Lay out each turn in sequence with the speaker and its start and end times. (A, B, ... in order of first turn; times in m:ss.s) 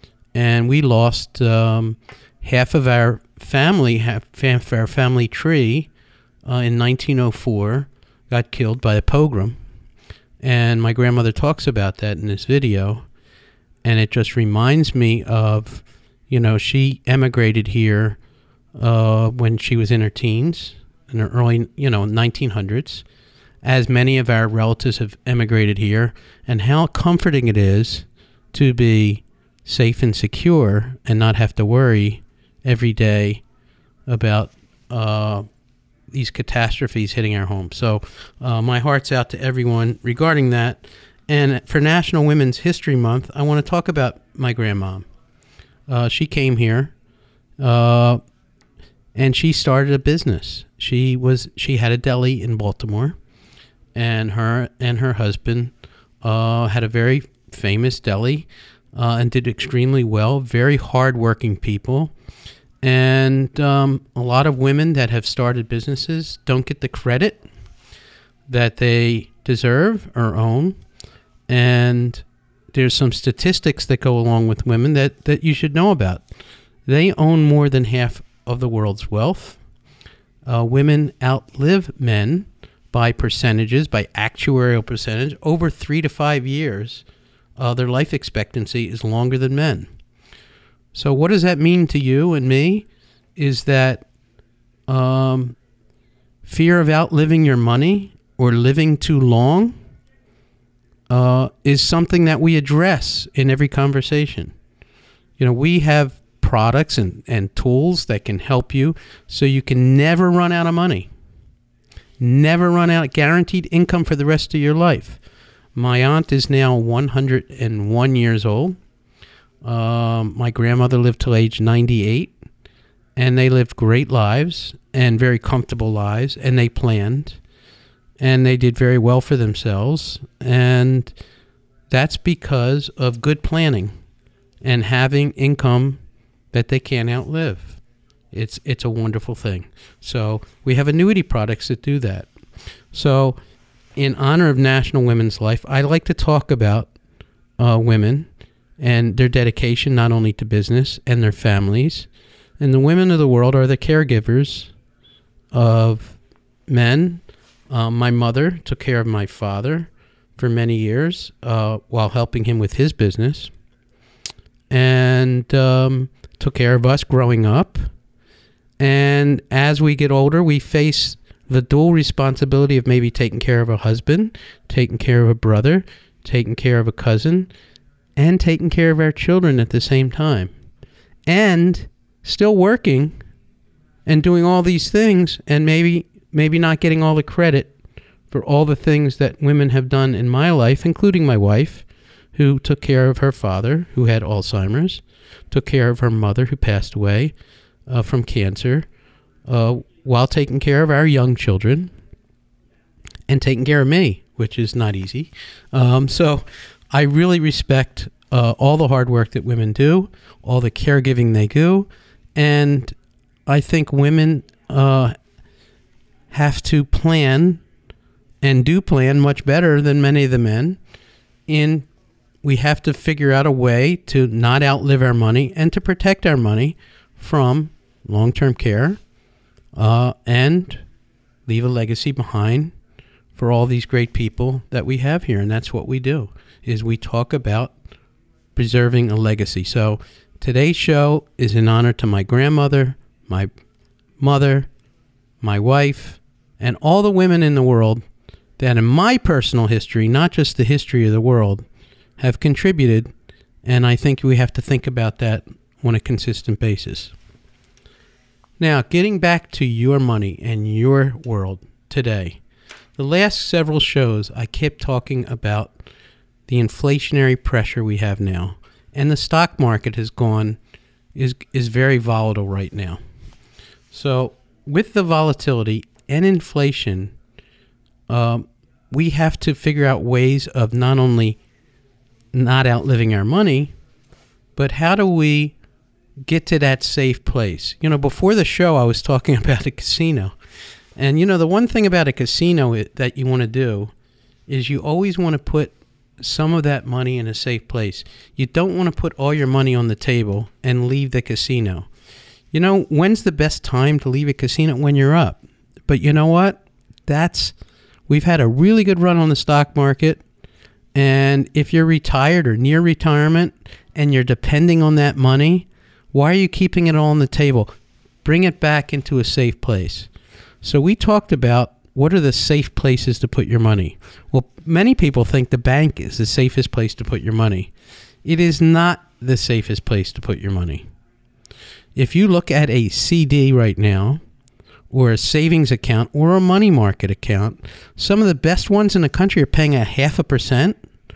0:00.3-0:05.9 A
0:06.4-0:09.6 A
0:10.4-0:13.1 A
0:13.8-0:18.2 A
0:18.8-0:23.0 A
0:23.6-0:33.4 A
0:34.1-0:35.4 A
0:36.1-0:45.1 A
0:45.9-0:46.9 A
0:47.6-0:48.2 A
0:49.1-0:53.2 A
0:53.9-1:02.1 A
1:02.8-1:07.4 A
1:08.5-1:10.8 A
1:11.5-1:16.2 A
1:16.8-1:19.6 A
1:20.4-1:27.0 A
1:27.6-1:29.9 A
1:30.9-1:34.1 A
1:34.9-1:35.6 A
1:36.4-1:39.8 A
1:41.1-1:44.5 A
1:45.4-1:51.1 A
1:52.2-1:55.2 A
1:55.8-1:58.8 A
1:59.6-2:02.3 A
2:03.2-2:07.4 A
2:08.2-2:11.1 A
2:11.9-2:13.9 A
2:14.6-2:16.0 A
2:16.5-2:17.8 A
2:18.3-2:22.3 A
2:22.9-2:23.4 A
2:24.0-2:26.9 A
2:27.6-2:28.3 A
2:28.8-2:32.1 A
2:32.6-2:34.7 A
2:35.5-2:43.5 A
2:44.7-2:47.8 A
2:48.8-2:57.5 A
2:58.2-3:00.5 A
3:01.2-3:03.2 A
3:04.1-3:07.7 A
3:08.3-3:17.3 A
3:17.9-3:18.9 A
3:19.4-3:21.9 A
3:23.3-3:35.1 A
3:36.3-3:37.6 A
3:38.4-3:40.8 A
3:41.5-3:41.9 A
3:42.4-3:49.0 A
3:49.8-3:50.8 A
3:51.4-3:52.8 A
3:53.3-3:57.8 A
3:58.6-4:03.5 A
4:04.2-4:04.7 A
4:05.4-4:08.0 A
4:08.6-4:11.6 A
4:12.2-4:13.1 A
4:13.6-4:17.1 A
4:18.6-4:22.4 A
4:23.0-4:25.8 A
4:26.5-4:30.6 A
4:31.1-4:33.0 A
4:33.9-4:37.1 A
4:38.1-4:41.4 A
4:42.3-4:43.7 A
4:44.6-4:45.6 A
4:46.2-4:50.4 A
4:51.0-4:53.9 A
4:54.5-5:01.9 A
5:02.5-5:07.6 A
5:08.1-5:10.2 A
5:10.9-5:17.7 A
5:18.2-5:20.1 A
5:20.6-5:27.7 A
5:28.2-5:30.9 A
5:32.0-5:34.2 A
5:34.9-5:40.8 A